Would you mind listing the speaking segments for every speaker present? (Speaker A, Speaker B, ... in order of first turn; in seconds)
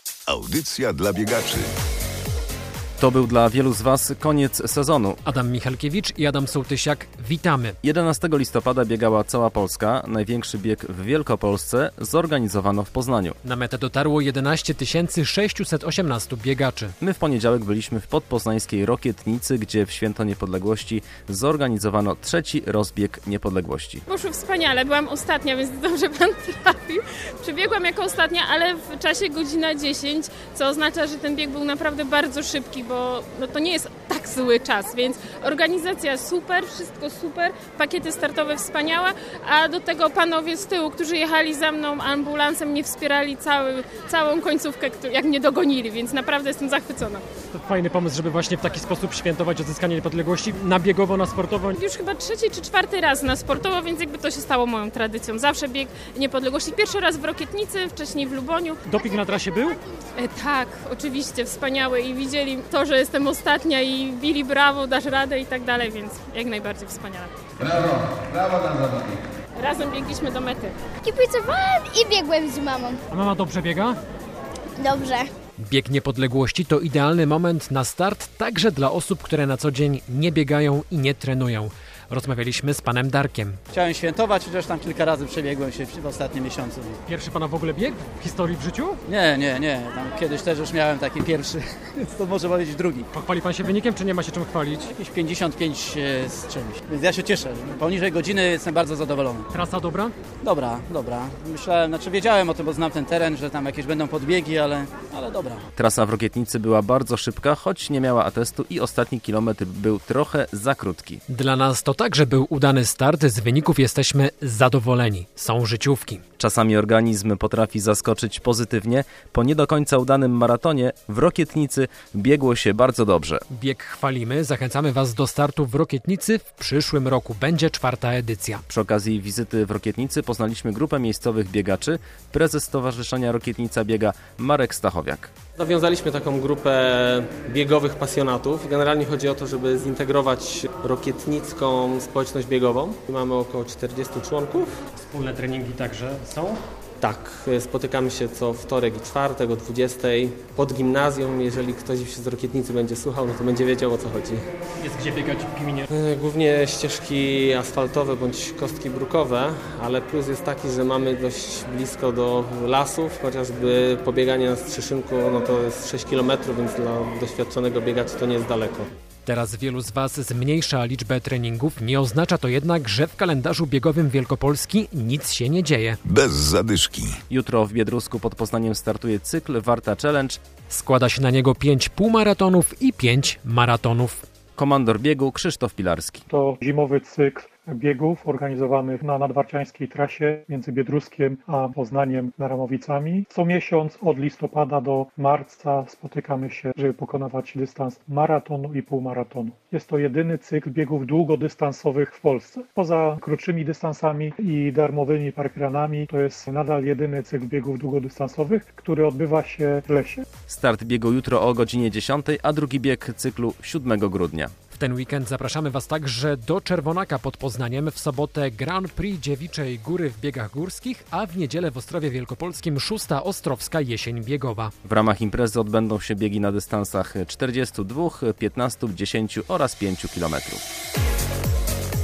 Speaker A: 0.3-1.6, 176.1-177.2
Speaker B: 3.0-5.2, 7.8-13.3, 17.0-24.0, 105.7-111.2, 116.4-123.4, 128.7-135.3, 177.3-180.4, 184.6-186.2, 210.5-214.5, 224.8-230.6
Speaker C: 5.2-7.8, 13.4-16.9, 47.5-51.8, 58.9-59.7, 73.1-74.0, 75.6-83.6, 87.1-89.0, 93.1-94.9, 99.5-100.1, 111.3-116.2, 123.5-128.6, 145.1-146.5, 154.9-155.8, 169.2-176.0, 180.7-184.2, 214.7-224.7
Speaker D: 24.1-47.2, 51.7-59.0, 60.1-67.3, 69.5-70.8
Speaker E: 71.0-73.0, 74.8-75.3
Speaker F: 83.7-87.0, 89.1-93.1, 94.9-99.5, 100.4-105.7
Speaker G: 135.6-144.8, 147.0-154.4, 155.9-168.9
Speaker H: 186.3-210.2